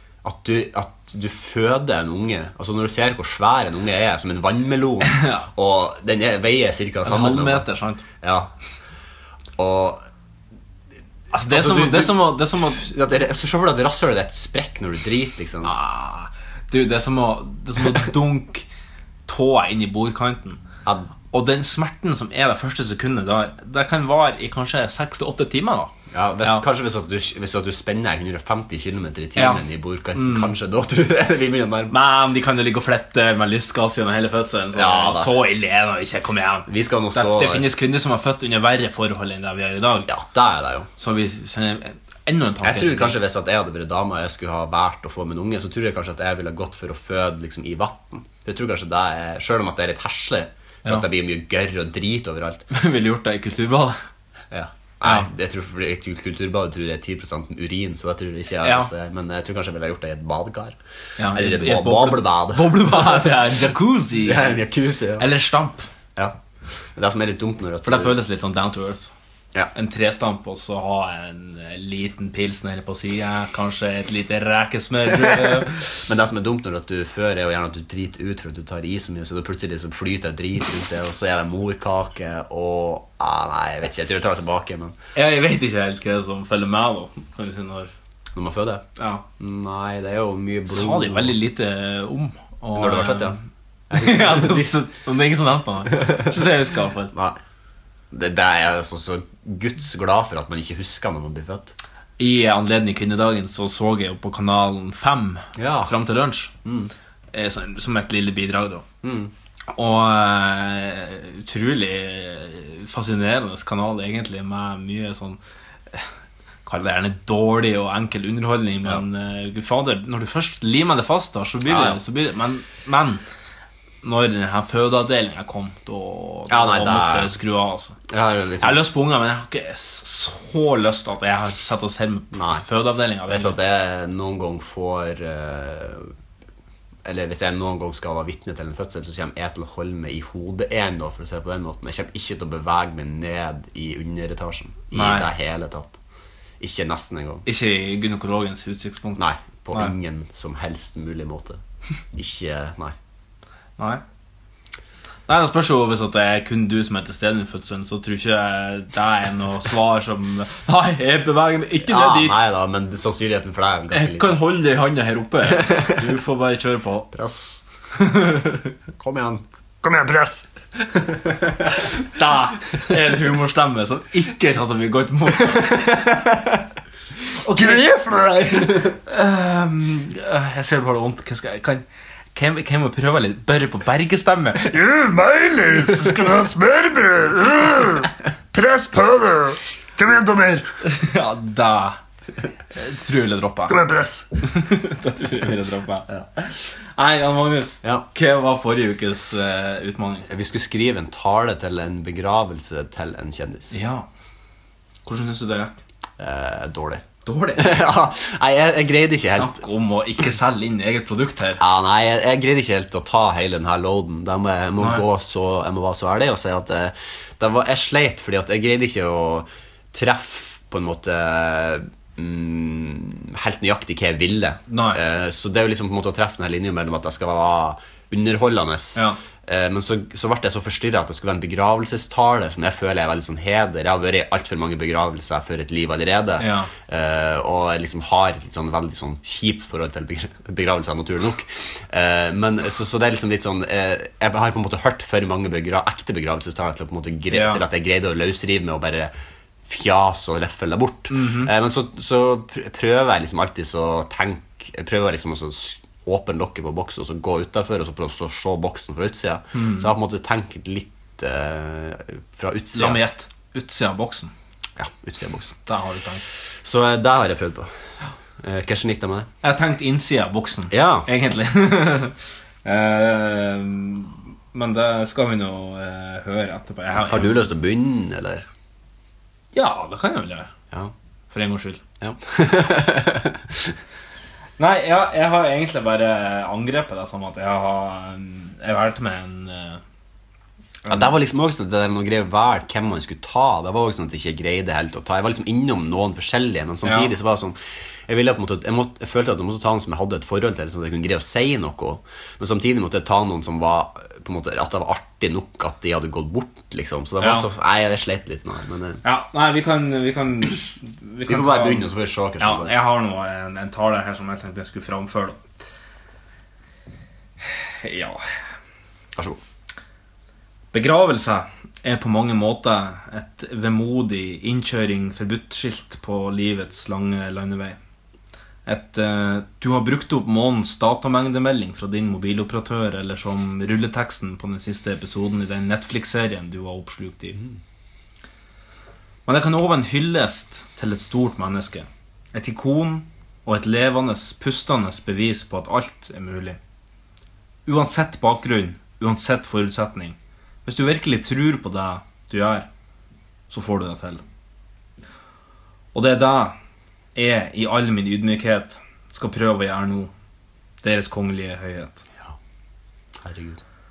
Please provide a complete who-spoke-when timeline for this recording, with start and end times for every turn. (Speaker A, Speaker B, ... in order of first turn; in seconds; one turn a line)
Speaker A: 0.2-7.7
Speaker B: 5.0-5.5
Speaker B: 7.0-8.0
Speaker A: 8.2-8.5
Speaker A: 9.6-10.0
Speaker B: 11.3-12.9
Speaker A: 11.5-15.7
Speaker B: 15.6-18.6
Speaker B: 19.3-20.6
Speaker A: 20.9-21.1
Speaker B: 21.3-26.6
Speaker A: 26.1-32.0
Speaker B: 29.4-29.6
Speaker B: 30.1-30.5
Speaker B: 31.9-40.1
Speaker A: 34.7-35.3
Speaker A: 36.7-37.7
Speaker A: 40.0-40.9
Speaker B: 41.0-43.2
Speaker A: 42.6-52.6
Speaker B: 52.7-54.0
Speaker A: 54.5-60.8
Speaker B: 58.6-58.9
Speaker B: 61.2-64.6
Speaker A: 61.3-63.3
Speaker A: 64.2-65.3
Speaker B: 65.2-65.9
Speaker A: 66.9-68.2
Speaker B: 67.8-69.1
Speaker B: 69.7-75.8
Speaker A: 75.4-85.0
Speaker B: 85.1-87.9
Speaker A: 88.3-88.8
Speaker B: 89.0-89.2
Speaker A: 89.4-91.3
Speaker B: 90.7-93.4
Speaker A: 92.7-93.4
Speaker A: 93.9-94.8
Speaker B: 93.9-97.1
Speaker A: 97.1-97.4
Speaker A: 98.1-101.7
Speaker B: 102.2-106.5
Speaker A: 105.5-105.9
Speaker A: 106.6-106.9
Speaker B: 107.3-108.8
Speaker A: 109.0-109.3
Speaker B: 109.7-115.4
Speaker B: 116.7-123.2
Speaker A: 121.7-122.0
Speaker B: 124.0-127.9
Speaker A: 126.5-127.3
Speaker A: 128.1-128.8
Speaker B: 128.6-133.6
Speaker A: 132.3-132.6
Speaker A: 133.3-136.1
Speaker A: 137.0-146.0
Speaker B: 144.9-145.3
Speaker A: 146.6-147.4
Speaker B: 147.4-149.9
Speaker A: 149.2-151.6
Speaker A: 152.1-152.9
Speaker B: 155.3-162.5
Speaker A: 161.8-164.4
Speaker B: 163.9-167.1
Speaker A: 165.5-166.0
Speaker A: 167.1-167.6
Speaker B: 168.0-168.7
Speaker A: 168.9-169.4
Speaker C: 169.8-170.4
Speaker B: 171.8-176.0
Speaker A: 176.1-176.5
Speaker B: 177.4-181.8
Speaker C: 177.7-178.6
Speaker B: 182.3-184.7
Speaker C: 184.7-190.6
Speaker B: 190.8-192.0
Speaker B: 192.7-193.8
Speaker C: 193.7-194.2
Speaker B: 194.4-200.3
Speaker A: 200.2-203.8
Speaker B: 203.7-204.1
Speaker B: 205.0-205.8
Speaker A: 206.2-207.0
Speaker B: 207.2-207.9
Speaker A: 207.6-209.6
Speaker B: 209.3-211.6
Speaker A: 211.6-249.1
Speaker B: 214.8-215.1
Speaker B: 224.7-225.0
Speaker B: 236.4-236.7
Speaker B: 247.3-247.6
Speaker A: 249.6-263.0
Speaker B: 251.1-251.5
Speaker B: 259.5-259.9
Speaker B: 262.7-264.3
Speaker A: 264.8-265.6
Speaker B: 265.6-266.2
Speaker A: 266.6-267.7
Speaker A: 268.4-269.3
Speaker B: 269.4-272.1
Speaker A: 270.7-271.1
Speaker B: 272.6-277.4
Speaker A: 276.9-278.4
Speaker B: 279.5-280.5
Speaker B: 281.3-281.8
Speaker A: 282.0-283.8
Speaker B: 284.6-289.8
Speaker B: 290.8-291.1
Speaker A: 290.9-309.0
Speaker B: 296.8-297.1
Speaker B: 307.2-307.5
Speaker B: 309.0-311.9
Speaker A: 311.3-312.7
Speaker B: 312.4-315.4
Speaker B: 317.4-318.2
Speaker B: 320.7-327.8
Speaker B: 328.6-337.4
Speaker B: 339.2-346.6
Speaker B: 347.6-352.7
Speaker B: 353.5-354.2
Speaker B: 355.9-356.5
Speaker B: 357.1-360.1
Speaker B: 360.8-362.0
Speaker A: 363.2-363.6